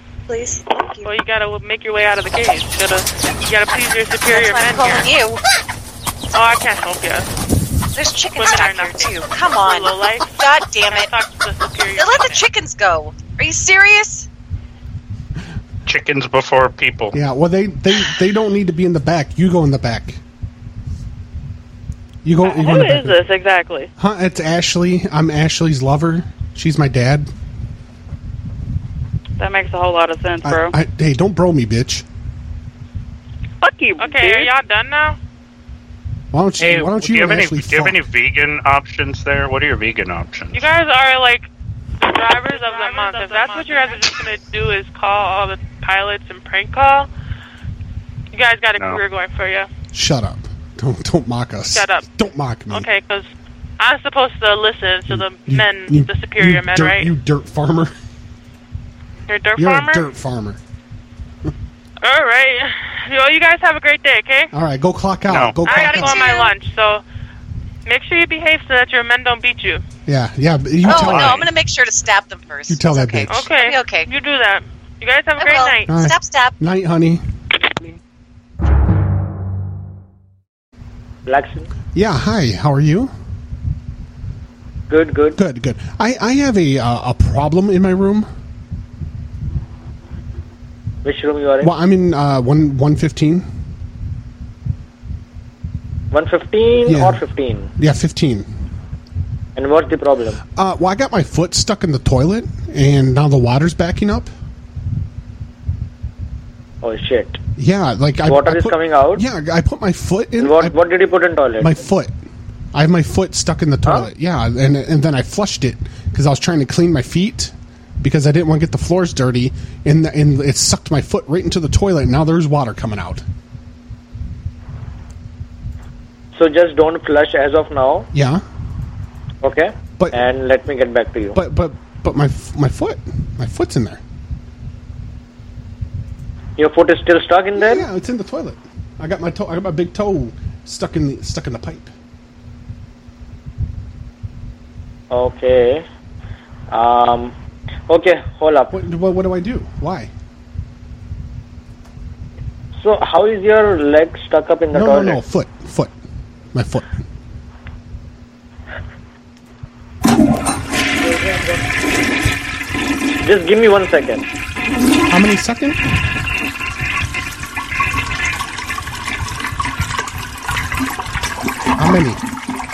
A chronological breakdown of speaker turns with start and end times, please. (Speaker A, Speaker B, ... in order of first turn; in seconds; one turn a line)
Speaker A: 0.3-1.2
Speaker B: 1.0-5.1
Speaker A: 4.2-5.4
Speaker B: 6.3-7.3
Speaker A: 7.9-11.2
Speaker B: 8.3-12.4
Speaker A: 11.9-14.3
Speaker C: 15.8-17.2
Speaker D: 17.1-20.2
Speaker D: 22.2-23.2
Speaker E: 22.4-23.9
Speaker D: 24.0-27.3
Speaker E: 29.4-30.8
Speaker D: 30.4-32.0
Speaker E: 33.6-34.5
Speaker B: 34.0-35.2
Speaker D: 36.3-38.0
Speaker C: 36.6-40.7
Speaker B: 40.5-41.5
Speaker B: 42.0-47.1
Speaker E: 42.7-43.8
Speaker B: 48.3-49.7
Speaker C: 48.8-49.0
Speaker D: 49.9-52.9
Speaker B: 51.7-52.0
Speaker B: 52.7-57.1
Speaker D: 55.1-57.9
Speaker B: 59.3-60.0
Speaker D: 59.6-60.6
Speaker B: 62.0-64.5
Speaker D: 64.5-66.3
Speaker C: 65.3-65.7
Speaker A: 65.6-66.5
Speaker B: 65.6-67.0
Speaker B: 67.8-69.8
Speaker D: 70.0-71.5
Speaker A: 70.8-74.1
Speaker D: 72.7-73.5
Speaker B: 73.3-75.9
Speaker A: 75.3-76.5
Speaker D: 75.9-77.2
Speaker F: 81.2-81.7
Speaker D: 81.9-83.1
Speaker F: 84.9-85.4
Speaker D: 85.3-88.3
Speaker F: 91.0-91.7
Speaker D: 91.6-93.5
Speaker F: 96.1-97.7
Speaker D: 96.8-97.2
Speaker D: 97.8-98.5
Speaker F: 99.5-100.4
Speaker D: 100.5-104.3
Speaker F: 106.8-107.4
Speaker D: 107.6-110.8
Speaker F: 108.3-109.2
Speaker F: 110.4-111.7
Speaker D: 111.6-112.2
Speaker D: 112.7-123.2
Speaker F: 126.3-128.1
Speaker D: 128.1-128.4
Speaker F: 129.4-131.4
Speaker D: 130.0-130.2
Speaker D: 131.3-134.0
Speaker F: 136.6-137.9
Speaker D: 137.5-141.9
Speaker F: 145.1-145.8
Speaker F: 146.7-147.3
Speaker F: 147.9-148.7
Speaker D: 148.7-150.1
Speaker F: 152.8-155.2
Speaker D: 154.7-155.9
Speaker D: 156.5-157.0
Speaker F: 163.2-164.2
Speaker D: 165.1-165.8
Speaker D: 171.8-172.2